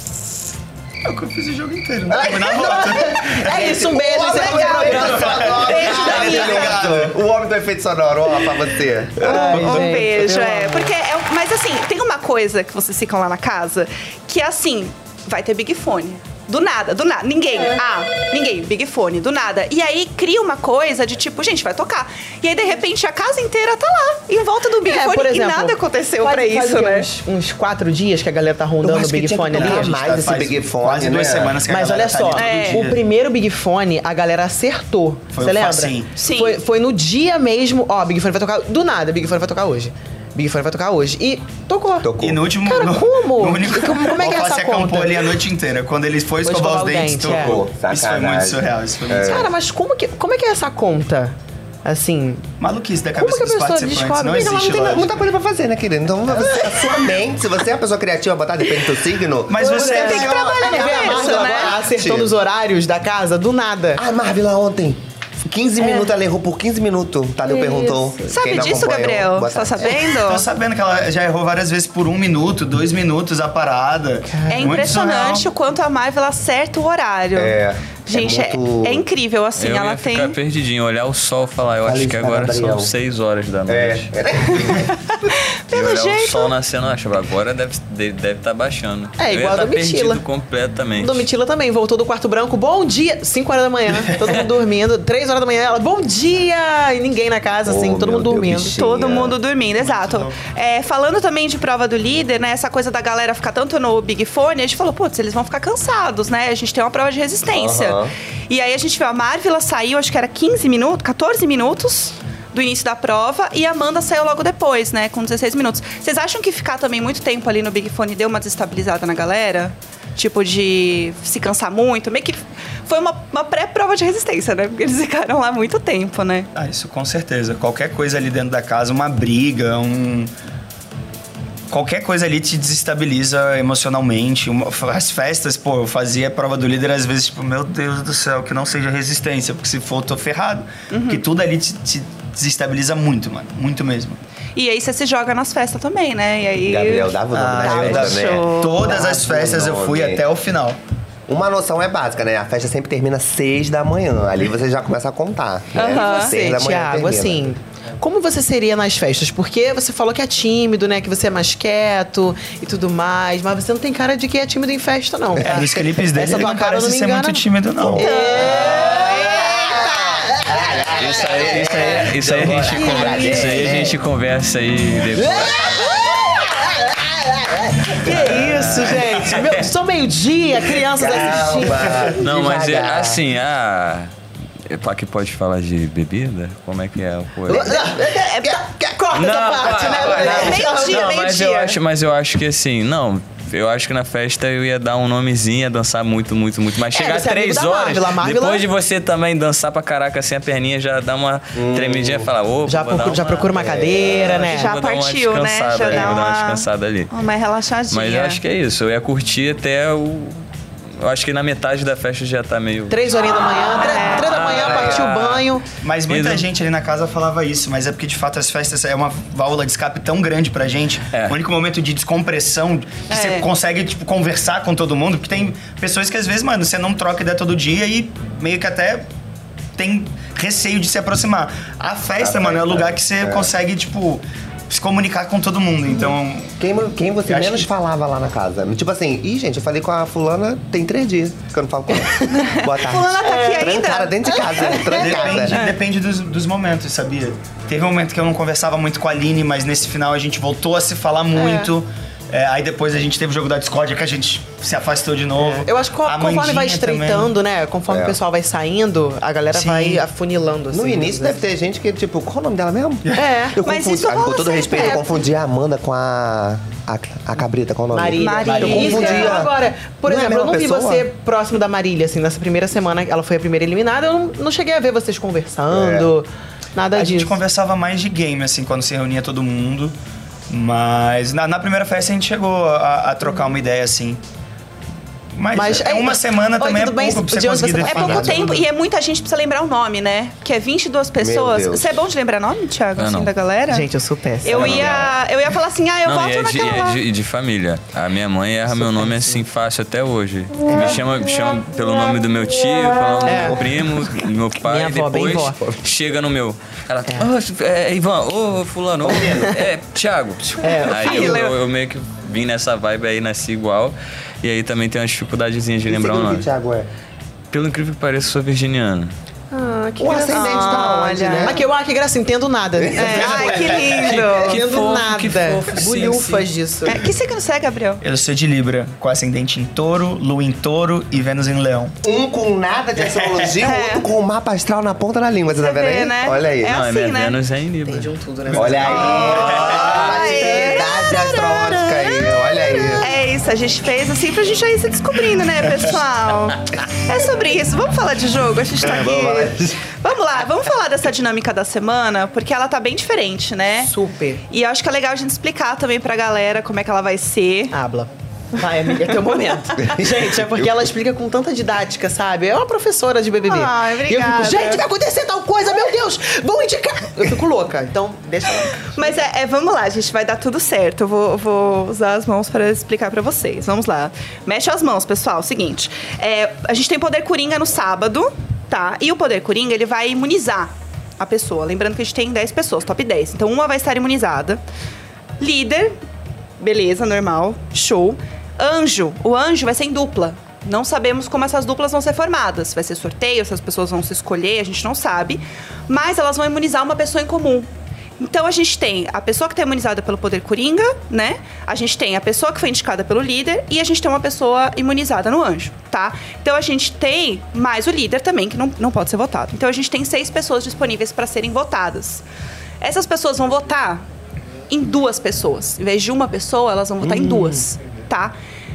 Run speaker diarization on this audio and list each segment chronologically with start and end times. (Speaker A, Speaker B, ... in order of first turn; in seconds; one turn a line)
Speaker A: 1.0-3.9
Speaker B: 2.1-6.7
Speaker C: 2.4-9.8
Speaker D: 3.8-6.8
Speaker A: 4.7-7.2
Speaker B: 9.2-10.9
Speaker D: 9.2-27.1
Speaker A: 9.4-10.1
Speaker B: 24.8-29.9
Speaker C: 28.8-31.6
Speaker A: 29.5-33.0
Speaker B: 31.7-45.3
Speaker D: 32.4-32.9
Speaker A: 35.3-36.1
Speaker D: 36.1-36.6
Speaker C: 42.0-42.5
Speaker A: 42.2-49.4
Speaker B: 46.4-47.6
Speaker C: 47.2-49.5
Speaker B: 49.2-52.4
Speaker A: 52.6-55.1
Speaker B: 53.2-54.8
Speaker C: 54.6-62.3
Speaker A: 59.5-61.2
Speaker B: 59.6-64.0
Speaker D: 59.7-61.8
Speaker C: 64.0-70.1
Speaker B: 65.8-66.1
Speaker B: 67.5-68.3
Speaker D: 68.3-70.5
Speaker A: 70.2-75.5
Speaker B: 74.2-74.9
Speaker D: 74.5-80.3
Speaker C: 77.3-79.1
Speaker E: 79.5-84.1
Speaker C: 81.8-82.9
Speaker C: 83.7-84.9
Speaker D: 85.7-86.5
Speaker E: 85.7-91.3
Speaker B: 89.2-90.2
Speaker B: 91.0-98.8
Speaker C: 97.6-99.4
Speaker D: 98.7-126.5
Speaker A: 99.8-100.3
Speaker C: 107.5-108.1
Speaker A: 126.5-130.3
Speaker A: 131.7-144.2
Speaker D: 140.9-141.2
Speaker D: 144.6-149.0
Speaker C: 146.6-150.2
Speaker A: 147.3-150.8
Speaker C: 151.3-157.5
Speaker D: 155.8-156.4
Speaker B: 155.8-171.0
Speaker A: 165.4-168.1
Speaker C: 167.8-174.0
Speaker D: 168.0-170.2
Speaker E: 171.0-175.8
Speaker B: 172.4-173.9
Speaker B: 175.1-181.8
Speaker E: 178.1-179.0
Speaker A: 178.4-179.5
Speaker C: 180.9-183.2
Speaker E: 182.2-184.1
Speaker E: 184.7-187.7
Speaker C: 187.4-190.8
Speaker B: 187.5-191.1
Speaker E: 189.1-207.1
Speaker D: 190.2-191.8
Speaker B: 196.9-198.7
Speaker C: 201.5-202.3
Speaker B: 202.7-204.7
Speaker C: 203.5-204.5
Speaker D: 204.5-208.4
Speaker E: 207.9-210.4
Speaker E: 211.0-215.4
Speaker B: 212.9-215.7
Speaker D: 213.7-214.8
Speaker A: 214.7-215.3
Speaker A: 215.8-229.1
Speaker E: 216.1-216.4
Speaker D: 223.1-223.5
Speaker A: 229.8-236.6
Speaker C: 232.2-233.5
Speaker C: 236.6-245.7
Speaker A: 237.2-237.7
Speaker D: 242.3-244.8
Speaker B: 243.2-243.8
Speaker B: 244.3-245.1
Speaker A: 244.8-257.3
Speaker B: 251.3-251.7
Speaker B: 255.4-261.4
Speaker C: 257.9-258.2
Speaker A: 259.5-260.0
Speaker C: 260.7-271.1
Speaker B: 263.1-263.6
Speaker D: 263.6-265.1
Speaker B: 267.9-277.4
Speaker D: 268.2-269.5
Speaker A: 268.4-269.1
Speaker C: 275.7-276.1
Speaker A: 276.9-279.9
Speaker A: 280.5-284.2
Speaker A: 285.3-288.6
Speaker B: 285.5-288.4
Speaker C: 287.8-288.6
Speaker D: 288.0-293.9
Speaker C: 291.2-292.0
Speaker E: 292.9-293.3
Speaker B: 293.7-294.9
Speaker D: 294.4-297.0
Speaker C: 294.5-295.1
Speaker E: 294.5-295.1
Speaker E: 296.0-316.4
Speaker B: 298.7-299.4
Speaker B: 303.2-303.6
Speaker B: 304.6-305.8
Speaker C: 309.0-309.6
Speaker B: 310.6-311.4
Speaker D: 310.6-311.5
Speaker C: 315.9-316.9
Speaker E: 317.5-319.1
Speaker B: 319.5-320.9
Speaker C: 320.0-321.6
Speaker D: 320.3-321.6
Speaker B: 321.4-327.1
Speaker C: 322.8-323.8
Speaker D: 323.0-324.6
Speaker A: 323.1-324.0
Speaker E: 323.8-326.5
Speaker D: 326.8-328.0
Speaker A: 328.0-331.9
Speaker C: 332.0-336.8
Speaker A: 333.0-333.5
Speaker D: 333.6-334.1
Speaker D: 335.6-337.4
Speaker E: 336.6-338.1
Speaker B: 337.9-340.9
Speaker A: 338.5-340.0
Speaker C: 338.5-343.2
Speaker D: 339.6-353.9
Speaker C: 348.8-349.8
Speaker B: 353.8-354.4
Speaker D: 354.5-357.7
Speaker B: 357.7-369.2
Speaker D: 359.1-359.3
Speaker C: 360.0-360.3
Speaker D: 363.4-364.8
Speaker D: 369.0-384.6
Speaker D: 385.4-385.9
Speaker D: 386.6-412.2
Speaker D: 412.8-414.0
Speaker D: 414.7-418.3
Speaker C: 417.0-417.6